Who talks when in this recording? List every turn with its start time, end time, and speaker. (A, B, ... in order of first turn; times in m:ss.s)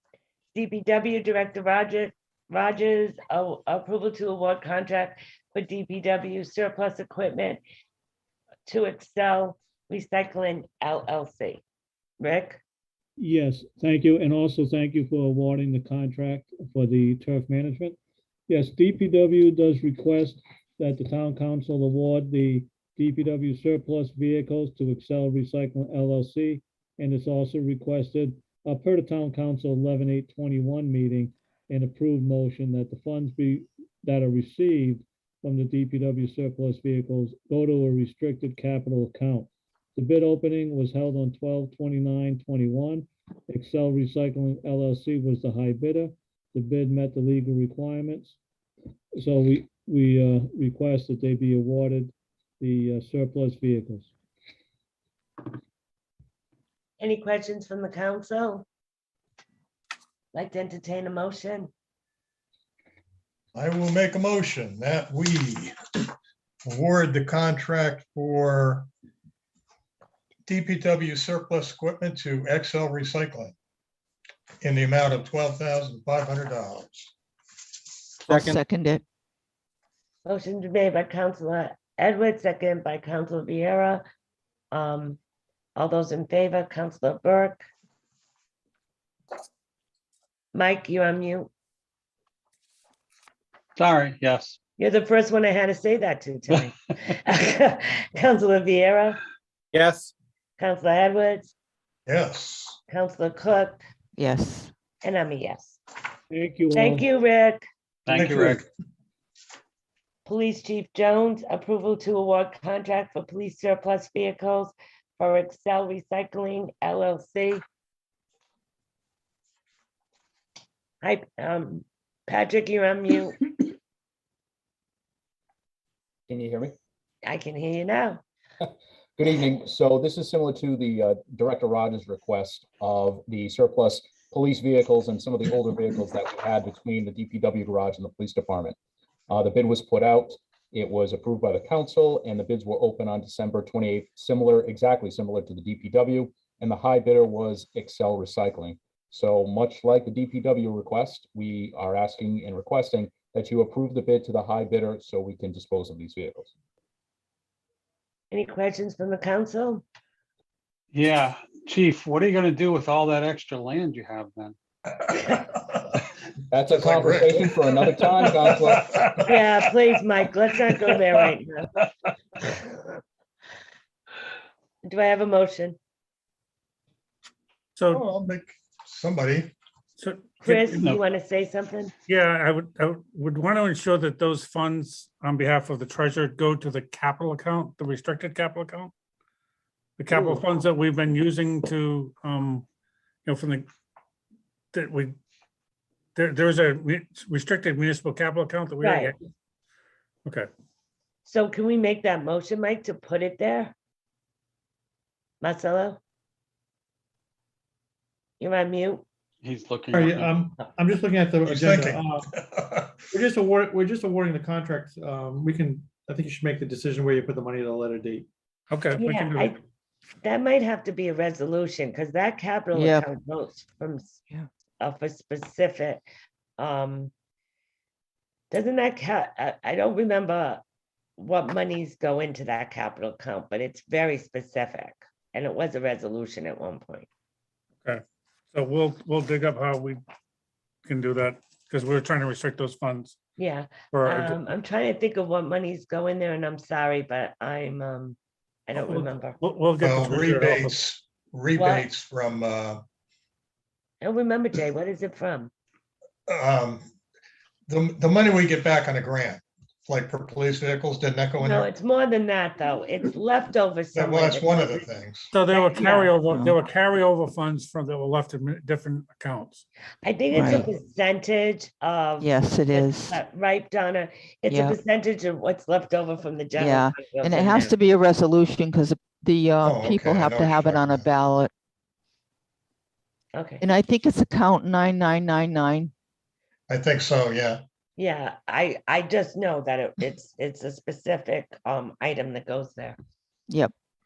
0:00.5-0:07.6 A
0:08.7-0:11.6 A
0:12.2-0:12.6 A
0:13.2-0:18.0 B
0:18.5-0:48.4 B
0:49.2-0:54.1 B
0:57.0-0:58.6 A
1:00.3-1:01.7 A
1:03.5-1:05.7 C
1:06.6-1:08.9 C
1:10.4-1:13.5 C
1:14.6-1:17.1 C
1:18.3-1:19.0 D
1:18.3-1:18.6 E
1:20.2-1:24.0 A
1:24.7-1:25.2 A
1:25.8-1:27.7 A
1:30.5-1:31.5 A
1:33.8-1:34.6 F
1:34.8-1:39.2 A
1:39.7-1:40.1 E
1:40.6-1:41.5 A
1:42.1-1:42.8 C
1:42.9-1:43.8 A
1:44.2-1:44.7 D
1:45.0-1:45.8 A
1:46.3-1:47.0 B
1:46.7-1:47.6 A
1:48.0-1:48.6 F
1:48.1-1:48.6 C
1:50.2-1:57.6 A
2:01.0-2:03.4 A
2:06.3-2:06.7 G
2:07.2-2:08.2 A
2:08.6-2:18.8 G
2:19.3-2:36.5 G
2:38.3-2:39.8 A
2:40.9-2:44.6 F
2:45.2-2:45.9 C
2:46.5-2:48.9 G
2:46.7-2:47.5 C
2:48.7-2:49.2 C
2:49.3-2:51.7 A
2:54.8-2:55.8 A
2:57.8-2:58.0 H
2:57.9-2:59.5 C
3:00.0-3:00.8 H
3:00.4-3:01.9 A
3:00.8-3:01.0 F
3:02.1-3:08.9 H
3:10.0-3:12.6 H
3:13.2-3:13.6 H
3:14.7-3:15.1 H
3:16.1-3:19.2 H
3:18.8-3:19.1 A
3:21.2-3:23.7 A
3:25.4-3:26.0 A
3:28.4-3:29.0 A
3:29.4-3:30.4 F
3:29.9-3:32.3 E
3:31.4-3:33.0 C
3:33.1-3:38.3 E
3:38.7-3:39.5 H
3:39.0-3:39.6 A
3:40.2-3:44.2 A
3:42.7-3:43.1 D
3:44.8-3:46.0 A
3:46.6-3:47.1 A
3:48.5-3:50.6 A
3:51.2-3:57.1 A
3:58.5-4:00.0 H
4:00.8-4:03.2 H
4:03.4-4:08.2 A
4:03.9-4:04.4 H
4:08.7-4:09.4 A
4:08.8-4:10.8 H
4:09.8-4:12.8 C
4:11.5-4:11.9 A
4:14.0-4:15.5 A
4:16.3-4:16.8 C
4:17.7-4:21.7 C
4:21.4-4:24.9 A
4:23.9-4:25.3 C
4:25.3-4:29.6 H
4:25.5-4:26.1 A
4:26.2-4:26.5 D
4:30.0-4:37.7 A
4:30.3-4:30.7 D
4:32.2-4:33.2 D
4:34.4-4:34.8 D
4:36.6-4:41.5 D
4:39.6-4:41.1 C
4:43.3-4:43.6 A
4:43.6-4:45.9 D
4:46.7-4:47.6 C
4:48.0-4:53.0 A